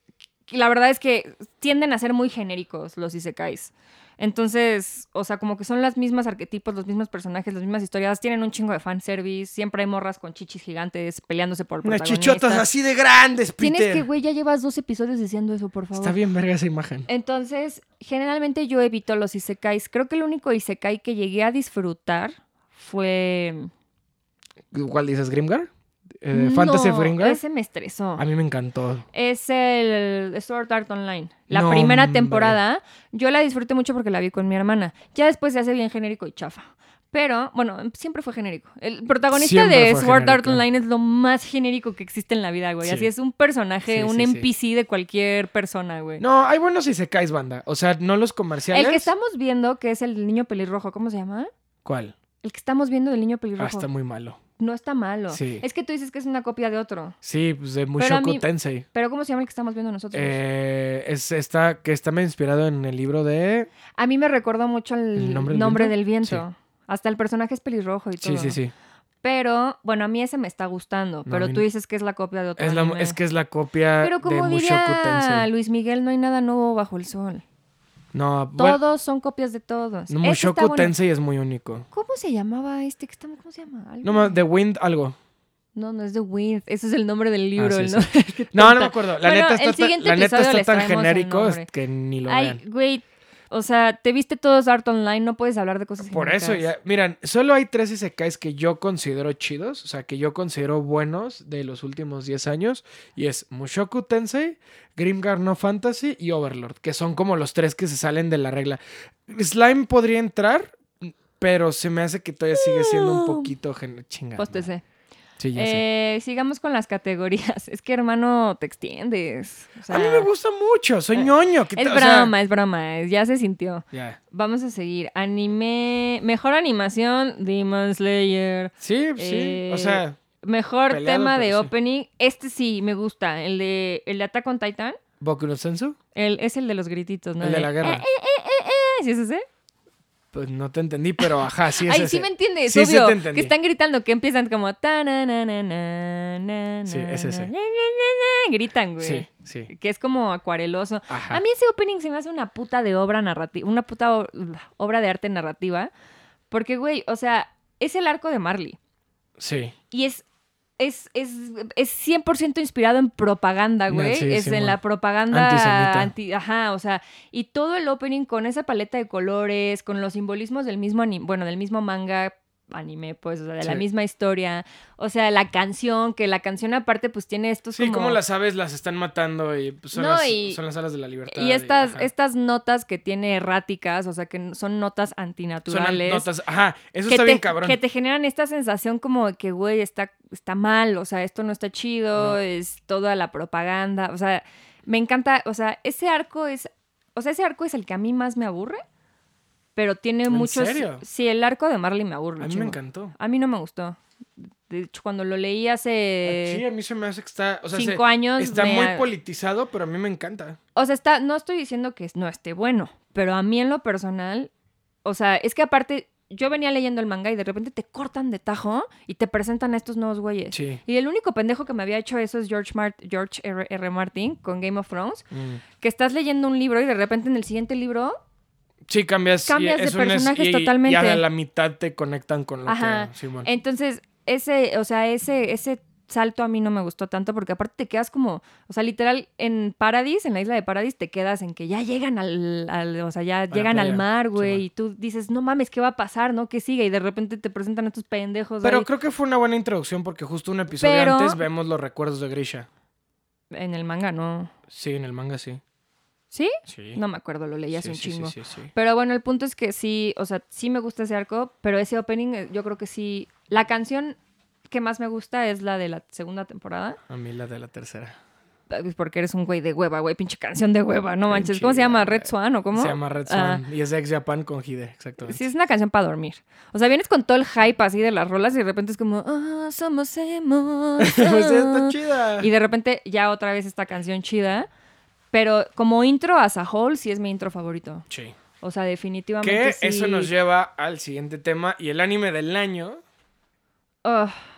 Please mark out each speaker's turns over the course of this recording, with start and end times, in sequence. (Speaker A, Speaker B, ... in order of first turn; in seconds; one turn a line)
Speaker A: 0.5-12.7
Speaker B: 11.8-14.1
Speaker A: 13.6-16.1
Speaker B: 15.9-17.1
Speaker A: 17.1-23.7
Speaker B: 24.7-25.7
Speaker B: 26.2-27.4
Speaker A: 26.3-28.2
Speaker B: 28.2-29.0
Speaker A: 29.1-46.2
Speaker B: 31.5-32.6
Speaker B: 39.3-40.6
Speaker B: 42.8-43.1
Speaker B: 43.9-44.5
Speaker B: 46.2-49.1
Speaker A: 48.7-51.5
Speaker B: 51.8-52.1
Speaker A: 52.4-53.9
Speaker B: 53.6-54.4
Speaker A: 54.6-57.1
Speaker B: 55.3-55.6
Speaker B: 57.2-58.9
Speaker A: 58.0-60.4
Speaker B: 60.1-63.7
Speaker A: 64.0-68.6
Speaker B: 65.2-66.4
Speaker B: 68.2-68.7
Speaker A: 69.2-73.2
Speaker B: 71.2-71.6
Speaker B: 72.6-75.5
Speaker A: 74.0-77.4
Speaker B: 78.1-78.8
Speaker A: 78.5-80.9
Speaker B: 80.1-81.9
Speaker A: 81.9-84.4
Speaker B: 84.0-85.2
Speaker A: 85.7-91.7
Speaker B: 87.6-92.6
Speaker A: 92.3-96.7
Speaker B: 96.0-114.7
Speaker A: 112.5-113.5
Speaker A: 114.4-114.8
Speaker B: 115.4-115.8
Speaker A: 115.5-120.3
Speaker B: 119.9-122.3
Speaker A: 121.1-135.0
Speaker B: 123.9-124.2
Speaker B: 128.8-130.2
Speaker B: 130.9-131.7
Speaker B: 135.2-136.0
Speaker A: 136.1-139.4
Speaker B: 137.4-138.0
Speaker B: 140.3-143.5
Speaker A: 141.2-155.9
Speaker B: 146.9-147.5
Speaker B: 149.0-149.7
Speaker B: 151.1-151.4
Speaker A: 156.5-158.8
Speaker B: 159.4-159.7
Speaker A: 159.9-160.2
Speaker A: 160.8-178.2
Speaker B: 163.9-164.8
Speaker B: 165.3-166.1
Speaker B: 177.7-182.1
Speaker A: 179.9-180.6
Speaker A: 181.3-186.3
Speaker B: 185.7-187.8
Speaker A: 187.1-198.8
Speaker B: 192.2-192.4
Speaker A: 199.8-206.6
Speaker B: 200.3-201.0
Speaker B: 202.4-203.1
Speaker B: 206.2-210.6
Speaker A: 207.7-209.1
Speaker A: 210.7-214.5
Speaker A: 215.0-225.3
Speaker B: 220.5-220.8
Speaker B: 225.3-225.6
Speaker A: 225.8-228.2
Speaker B: 228.8-233.5
Speaker A: 229.4-231.2
Speaker A: 232.7-248.9
Speaker B: 243.5-244.6
Speaker B: 248.6-252.7
Speaker A: 250.8-251.4
Speaker A: 253.5-254.5
Speaker B: 254.7-255.6
Speaker A: 256.3-264.2
Speaker B: 256.7-257.0
Speaker B: 257.7-258.7
Speaker A: 264.7-267.0
Speaker B: 267.1-268.2
Speaker A: 268.7-273.6
Speaker B: 271.3-275.4
Speaker A: 275.2-284.7
Speaker B: 281.0-282.5
Speaker A: 285.3-288.1
Speaker B: 288.1-288.4
Speaker A: 288.6-290.3
Speaker B: 289.4-293.0
Speaker A: 294.0-294.4